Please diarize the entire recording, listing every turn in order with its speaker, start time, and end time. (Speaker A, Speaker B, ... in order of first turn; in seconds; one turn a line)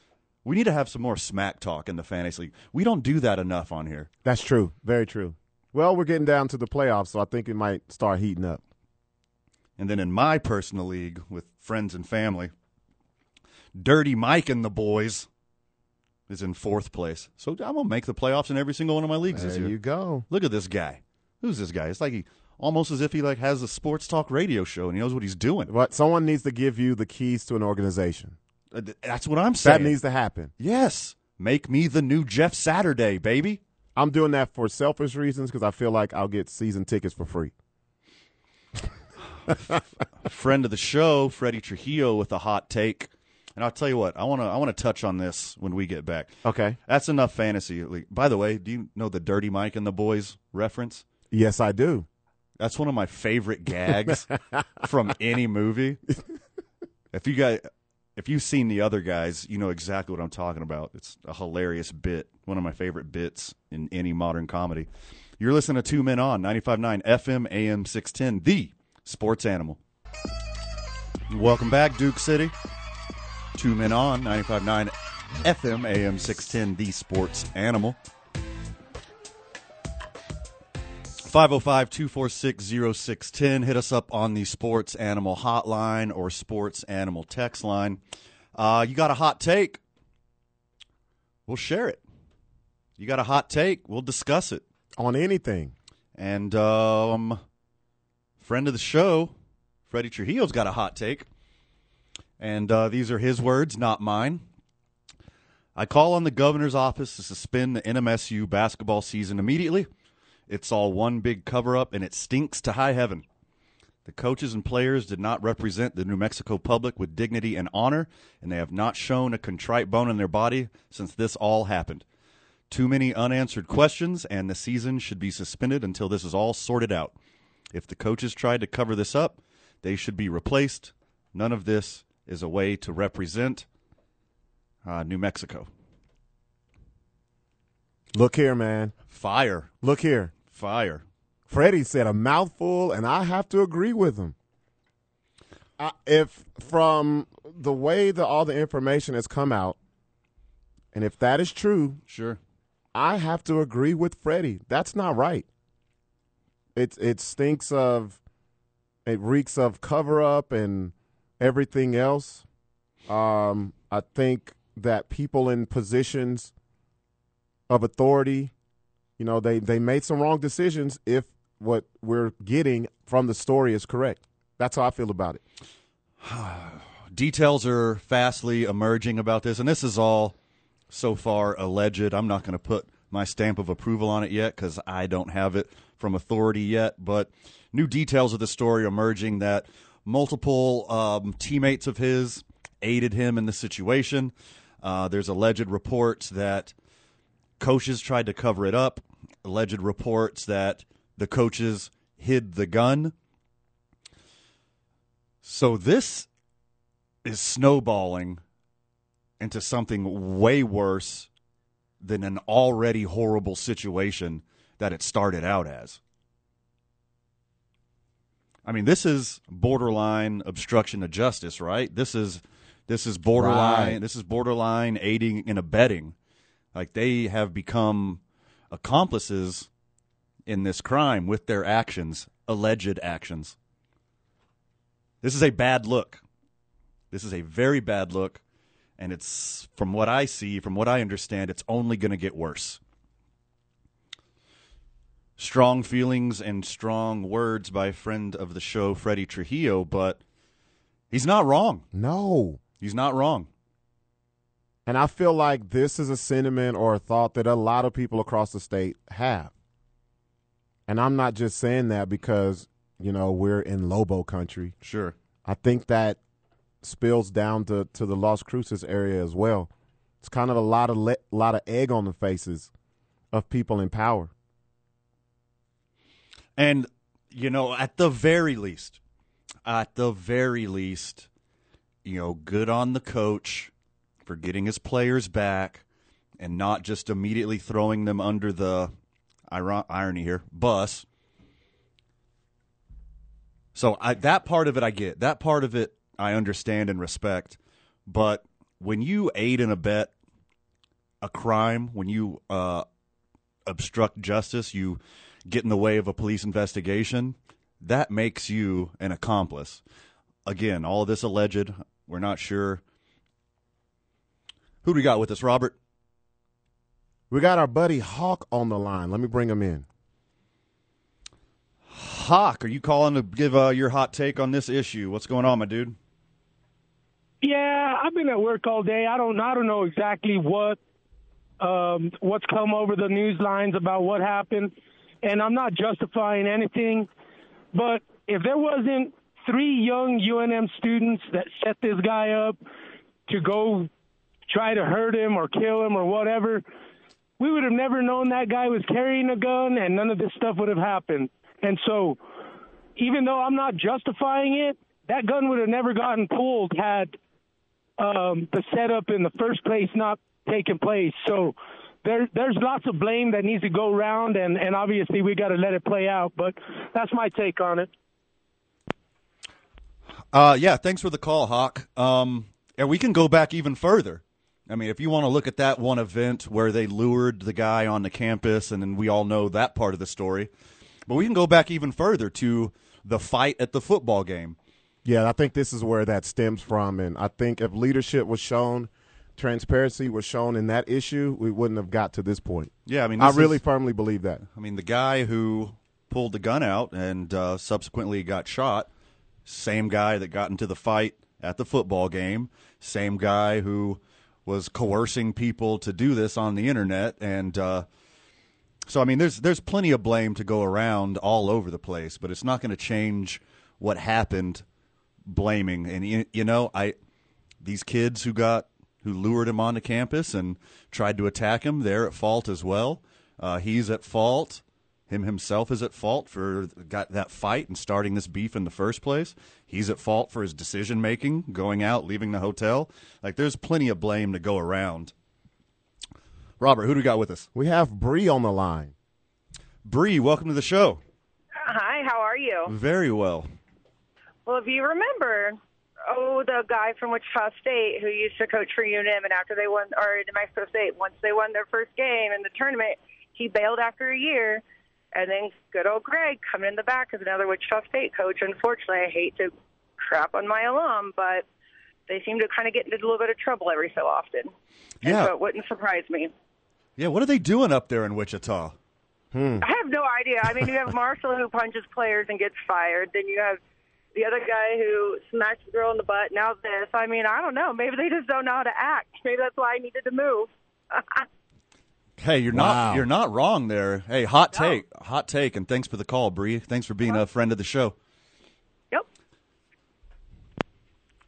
Speaker A: 0.5-4.1
Speaker B: 4.2-8.6
Speaker A: 9.8-12.5
Speaker A: 13.8-15.3
Speaker A: 16.3-19.8
Speaker B: 19.3-20.3
Speaker A: 20.3-25.7
Speaker B: 25.7-28.4
Speaker A: 28.7-30.0
Speaker B: 29.6-30.5
Speaker A: 30.6-33.6
Speaker B: 34.0-37.5
Speaker A: 40.2-46.4
Speaker B: 46.4-46.8
Speaker A: 46.9-51.0
Speaker B: 51.3-52.1
Speaker A: 52.6-56.0
Speaker A: 57.1-64.9
Speaker A: 65.4-69.8
Speaker A: 71.3-72.5
Speaker A: 73.5-78.0
Speaker A: 81.2-88.0
Speaker A: 88.5-89.8
Speaker A: 91.5-92.0
Speaker A: 93.0-94.6
Speaker B: 95.0-95.7
Speaker A: 96.2-97.4
Speaker A: 98.4-99.3
Speaker A: 99.9-101.3
Speaker A: 102.4-104.5
Speaker A: 105.8-109.9
Speaker A: 110.5-113.2
Speaker A: 114.0-122.0
Speaker A: 122.7-127.2
Speaker A: 127.7-133.7
Speaker A: 134.8-135.7
Speaker B: 138.1-138.9
Speaker A: 139.1-139.7
Speaker B: 139.8-140.3
Speaker A: 140.5-141.0
Speaker B: 141.5-144.3
Speaker B: 145.8-149.8
Speaker B: 150.9-152.0
Speaker A: 152.1-152.4
Speaker B: 152.9-155.5
Speaker B: 156.8-158.2
Speaker B: 159.1-162.4
Speaker B: 163.1-166.5
Speaker B: 167.7-168.5
Speaker B: 169.2-175.4
Speaker A: 176.2-180.3
Speaker A: 180.9-196.7
Speaker A: 197.6-203.1
Speaker A: 205.4-206.3
Speaker A: 207.2-208.4
Speaker A: 209.4-211.3
Speaker A: 212.0-216.0
Speaker A: 218.7-226.2
Speaker B: 223.4-224.0
Speaker A: 226.7-229.7
Speaker A: 230.5-233.6
Speaker A: 235.2-236.2
Speaker A: 237.1-238.4
Speaker A: 239.0-242.8
Speaker A: 245.4-250.2
Speaker A: 251.1-251.8
Speaker B: 251.9-252.6
Speaker A: 252.8-253.5
Speaker B: 254.9-259.5
Speaker B: 260.9-264.7
Speaker A: 264.8-265.1
Speaker B: 265.4-266.2
Speaker B: 266.8-269.7
Speaker B: 270.2-272.7
Speaker B: 273.3-274.3
Speaker A: 276.6-279.0
Speaker A: 279.7-281.3
Speaker A: 282.1-283.7
Speaker A: 284.2-285.8
Speaker A: 286.4-288.9
Speaker A: 289.5-291.1
Speaker A: 293.8-300.1
Speaker A: 301.2-302.9
Speaker A: 303.7-309.8
Speaker A: 310.4-312.8
Speaker A: 314.8-315.8
Speaker B: 317.3-319.9
Speaker A: 321.9-326.0
Speaker C: 327.4-330.8
Speaker C: 331.6-334.7
Speaker C: 335.2-337.1
Speaker C: 337.7-342.6
Speaker C: 343.3-343.9
Speaker C: 344.5-346.6
Speaker C: 347.4-352.2
Speaker C: 353.0-357.2
Speaker C: 358.0-367.9
Speaker A: 370.3-380.5
Speaker A: 381.1-384.6
Speaker B: 385.1-394.4
Speaker A: 392.9-393.6
Speaker A: 394.5-398.9
Speaker A: 399.5-407.9
Speaker A: 408.9-414.6
Speaker A: 415.3-416.9
Speaker A: 417.6-435.1
Speaker A: 436.6-437.5
Speaker B: 437.6-438.9
Speaker A: 439.9-441.0
Speaker D: 441.6-442.7
Speaker A: 442.7-443.5
Speaker D: 444.5-445.6
Speaker D: 446.1-454.6
Speaker D: 455.1-461.4
Speaker D: 462.1-464.5
Speaker D: 465.0-466.3
Speaker A: 465.0-465.3
Speaker A: 467.0-468.8
Speaker B: 469.3-469.6
Speaker D: 469.6-473.6
Speaker D: 474.1-481.3
Speaker A: 482.2-487.9
Speaker B: 482.5-483.1